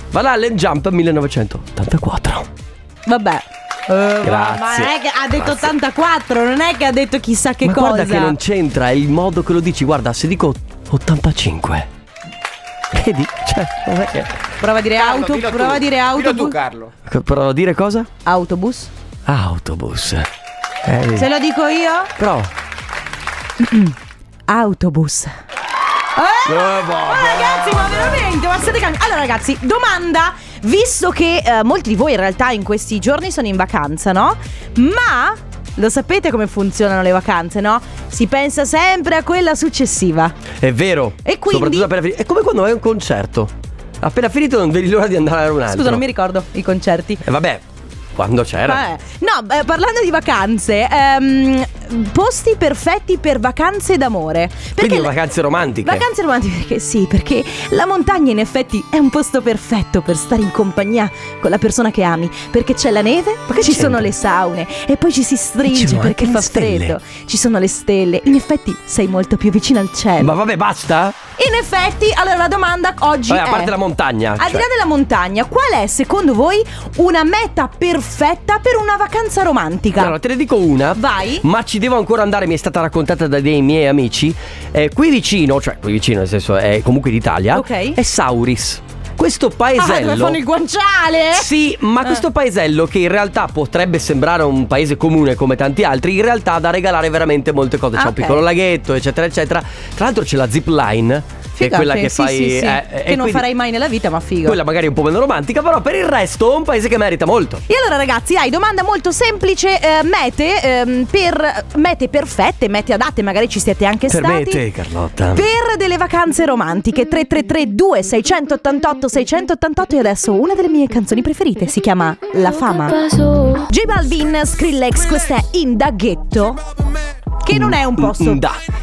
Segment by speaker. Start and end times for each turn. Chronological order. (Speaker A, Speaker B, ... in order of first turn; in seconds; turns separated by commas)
Speaker A: 0.1-2.5, Speaker B: 3.1-8.4, Speaker A: 4.2-5.7, Speaker A: 7.6-11.9, Speaker A: 12.9-14.5, Speaker B: 14.6-16.6, Speaker C: 14.9-16.9, Speaker A: 17.1-18.1, Speaker B: 18.2-18.9, Speaker A: 19.3-20.3, Speaker A: 20.8-21.3, Speaker B: 21.2-22.1, Speaker A: 22.2-22.5, Speaker B: 23.6-23.9, Speaker B: 24.5-25.3, Speaker B: 26.2-40.4, Speaker A: 26.5-28.1, Speaker A: 40.6-46.0, Speaker B: 41.2-41.9, Speaker B: 45.7-47.2, Speaker A: 47.2-47.6, Speaker A: 48.1-48.8, Speaker B: 48.6-55.1, Speaker A: 54.8-56.1, Speaker B: 55.8-70.4, Speaker A: 63.5-64.1, Speaker A: 65.6-67.0, Speaker A: 70.2-71.2, Speaker B: 71.4-73.8, Speaker A: 73.3-74.7, Speaker B: 74.4-80.2, Speaker A: 80.0-90.4, Speaker B: 81.0-81.5, Speaker B: 87.5-88.0, Speaker B: 89.8-91.5, Speaker A: 91.3-103.5, Speaker B: 98.0-98.4, Speaker B: 101.6-104.6, Speaker A: 104.4-107.6, Speaker B: 107.7-114.7, Speaker A: 114.1-115.5, Speaker B: 115.3-126.6, Speaker B: 127.4-128.4, Speaker A: 127.5-128.6